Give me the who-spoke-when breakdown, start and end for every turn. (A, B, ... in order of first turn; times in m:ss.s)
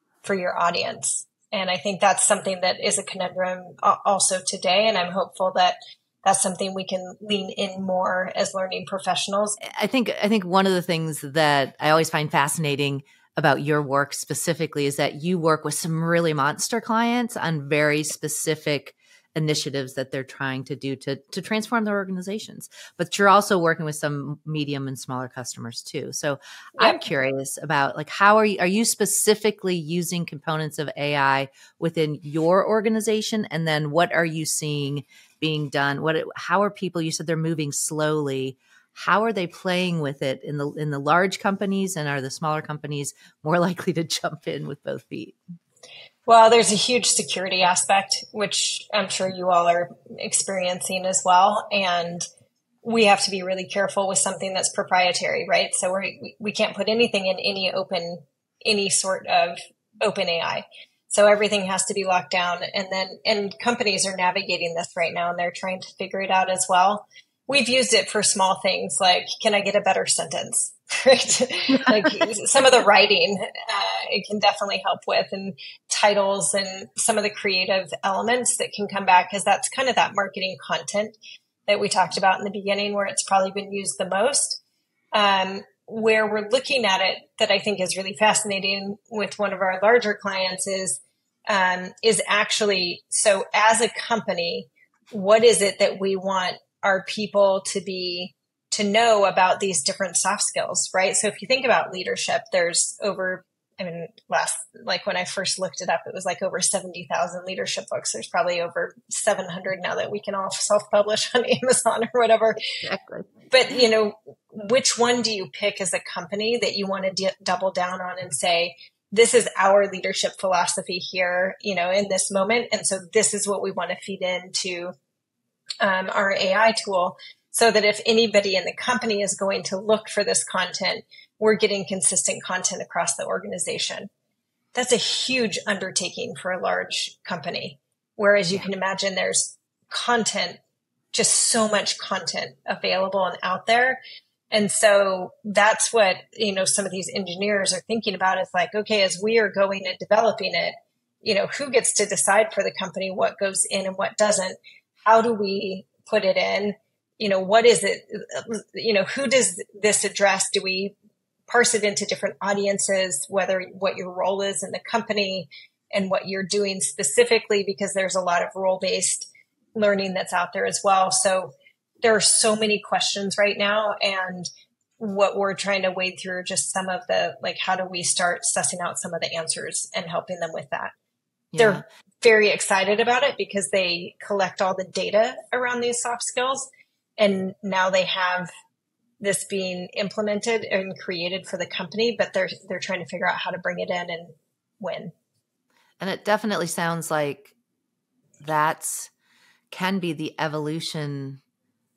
0:00.2-0:09.6 A
0:09.6-0:45.4 B
0:26.8-0:27.0 A
0:46.3-0:52.2 A
0:52.8-1:21.2 A
1:11.8-1:12.1 B
1:21.7-1:24.6 A
1:25.1-1:52.6 A
1:52.8-1:53.3 B
1:53.5-2:04.9 A
2:05.8-2:14.1 A
2:14.7-2:20.6 A
2:21.1-2:24.0 A
2:24.5-2:40.9 A
2:41.5-2:54.5 A
2:55.0-3:00.9 A
3:01.5-3:01.8 B
3:01.6-3:08.5 A
3:09.2-3:15.1 A
3:16.0-3:17.5 B
3:18.4-3:19.1 B
3:19.7-3:21.4 B